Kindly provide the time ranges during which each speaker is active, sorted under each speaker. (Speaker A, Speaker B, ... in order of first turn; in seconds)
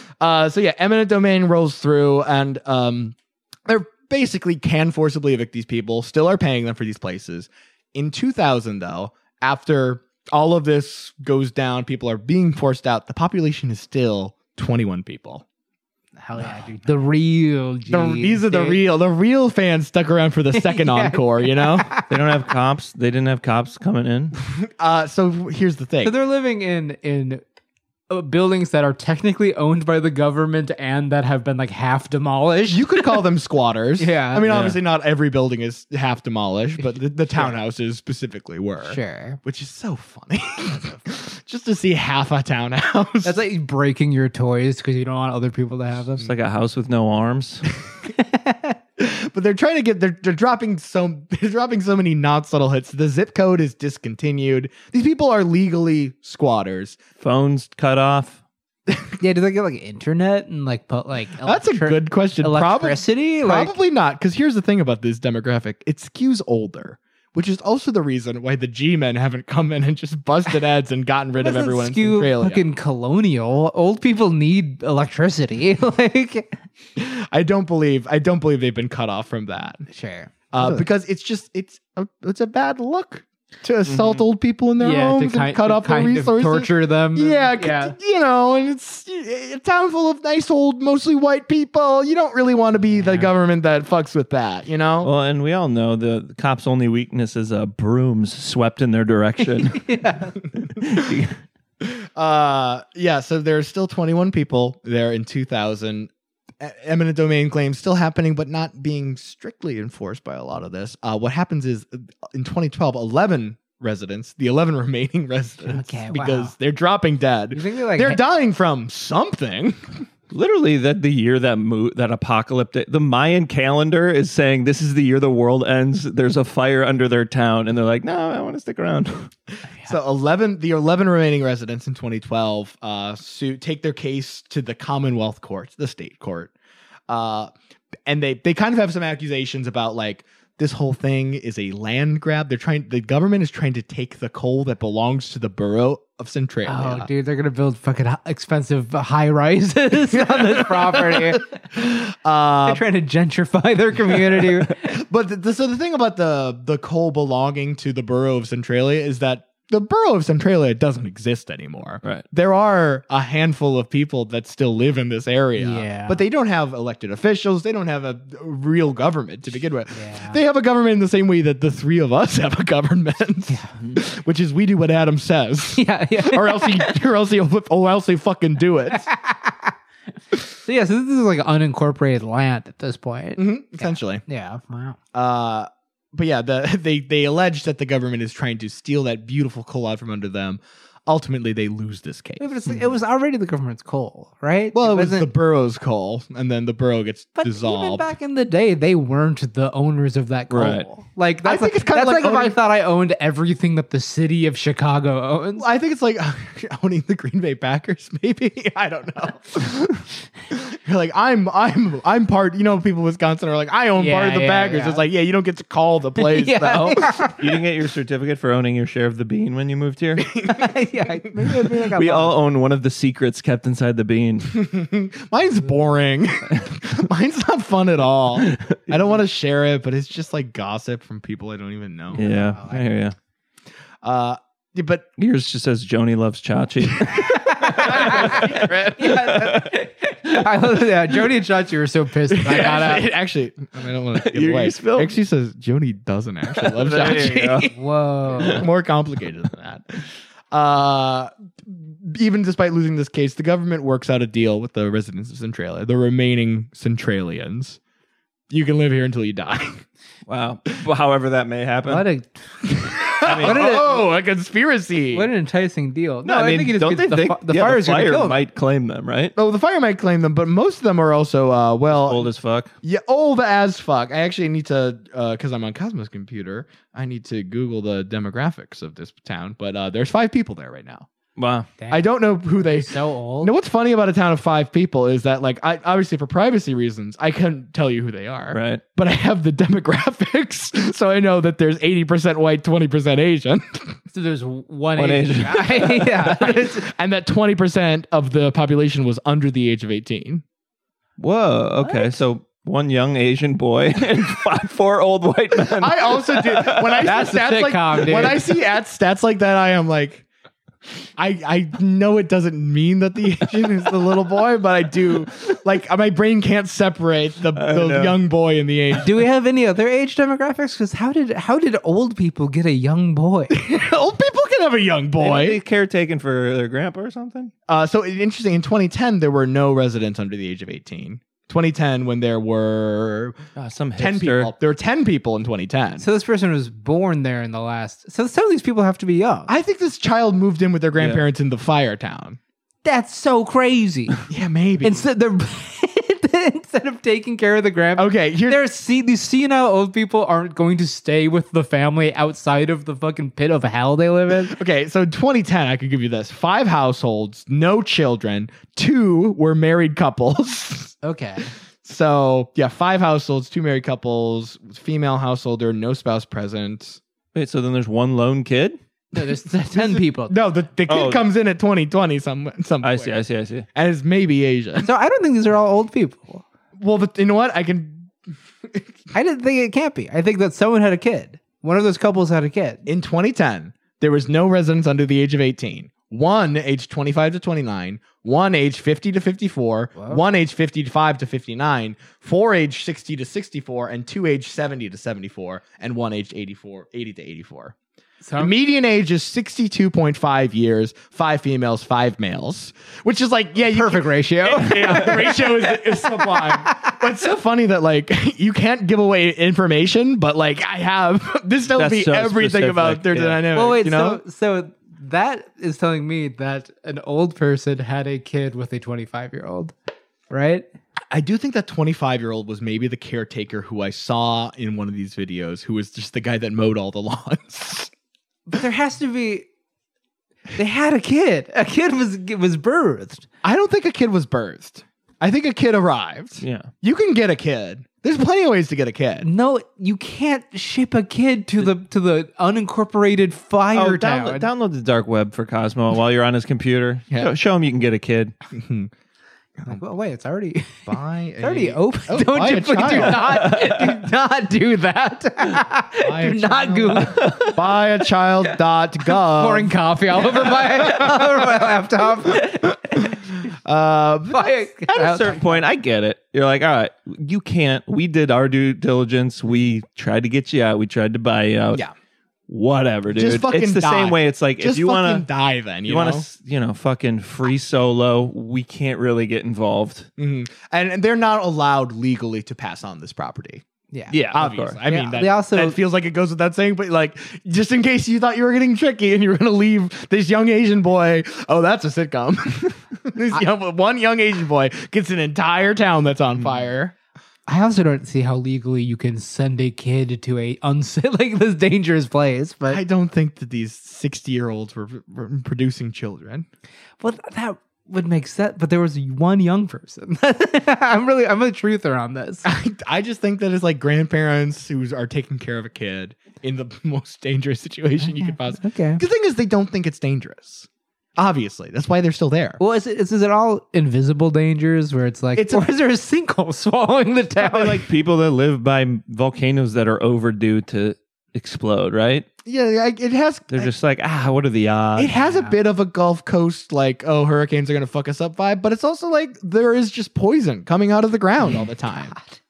Speaker A: 0.2-3.1, 3.6-15.4, 16.4-16.6, 17.9-21.9, 24.4-26.1, 32.7-43.4, 49.0-57.0, 61.4-72.6, 77.0-79.8, 80.5-95.1, 101.8-120.0, 129.8-136.5, 137.1-137.5, 138.0-147.1, 150.1-152.8, 154.8-179.1, 183.3-184.2, 185.1-192.5, 194.7-198.1, 201.4-202.6, 205.6-217.3, 220.2-221.9, 224.5-232.2, 234.0-235.1, 237.8-239.2, 242.3-247.7, 248.3-257.8, 258.5-259.8, 262.8-265.3, 269.4-272.3, 272.8-281.1, 281.9-294.0, 296.2-300.4, 305.7-310.3, 311.2-319.1, 323.5-325.6, 327.7-333.4, 334.0-336.0, 339.5-342.4, 344.3-345.1, 347.9-348.6, 354.5-360.9, 361.8-367.0, 369.7-373.2, 373.7-374.9, 376.8-378.1, 378.6-378.9, 382.9-397.7, 398.4-414.2, 421.1-427.9, 433.4-439.3, 448.5-448.9, 450.9-453.5, 456.0-459.7, 460.4-461.3, 462.8-464.5, 473.1-476.2, 480.2-483.6, 484.3-496.9, 502.6-506.5, 512.4-522.6, 525.3-525.7, 532.4-533.7, 535.0-542.1
Speaker B: 16.2-18.8, 20.5-22.1, 26.0-27.4, 28.1-33.2, 34.0-34.5, 36.8-37.5, 38.8-39.4, 43.2-46.3, 48.1-48.8, 59.2-63.7, 71.4-76.6, 79.9-80.8, 84.8-87.9, 99.6-100.4, 115.6-116.5, 117.5-118.2, 146.7-151.5, 152.7-154.8, 165.6-166.2, 169.9-170.4, 175.8-176.9, 179.0-179.7, 180.6-185.0, 192.4-195.3, 197.4-205.7, 213.9-215.0, 216.2-217.4, 220.4-222.3, 232.1-232.8, 237.5-243.1, 247.2-248.7, 261.9-264.1, 265.1-268.4, 281.8-283.5, 294.1-296.9, 301.8-302.1, 307.0-308.4, 318.9-323.6, 336.0-339.5, 342.8-344.2, 344.8-354.6, 361.0-361.5, 369.1-370.4, 374.8-376.4, 379.1-382.8, 389.9-390.2, 398.2-398.5, 403.6-406.9, 413.5-419.7, 420.3-420.7, 428.5-429.4, 430.6-433.2, 439.2-444.5, 449.7-450.9, 451.4-457.5, 459.1-463.1, 464.3-465.6, 483.9-484.2, 484.9-485.8, 497.5-502.8, 507.0-512.5, 518.0-519.0, 522.6-527.8, 535.1-535.5
Speaker C: 22.1-24.4, 34.5-34.8, 46.2-47.7, 57.2-58.4, 83.8-84.2, 95.0-99.9, 100.7-101.3, 120.3-129.3, 200.5-200.9, 217.4-220.3, 221.9-224.6, 228.4-228.8, 232.1-233.1, 235.2-239.7, 244.1-245.1, 246.5-247.7, 260.3-262.0, 263.2-263.7, 266.2-269.3, 271.9-272.7, 281.4-281.7, 288.5-288.8, 295.0-296.1, 301.2-307.1, 317.5-318.1, 325.2-327.5, 333.6-334.5, 367.3-368.8, 370.9-371.2, 372.8-373.6, 411.8-413.4, 436.4-436.7, 443.7-448.3, 453.1-453.6, 457.0-457.6, 464.9-471.8, 472.5-475.2, 475.9-480.1, 484.1-484.8, 527.4-532.3, 533.5-535.1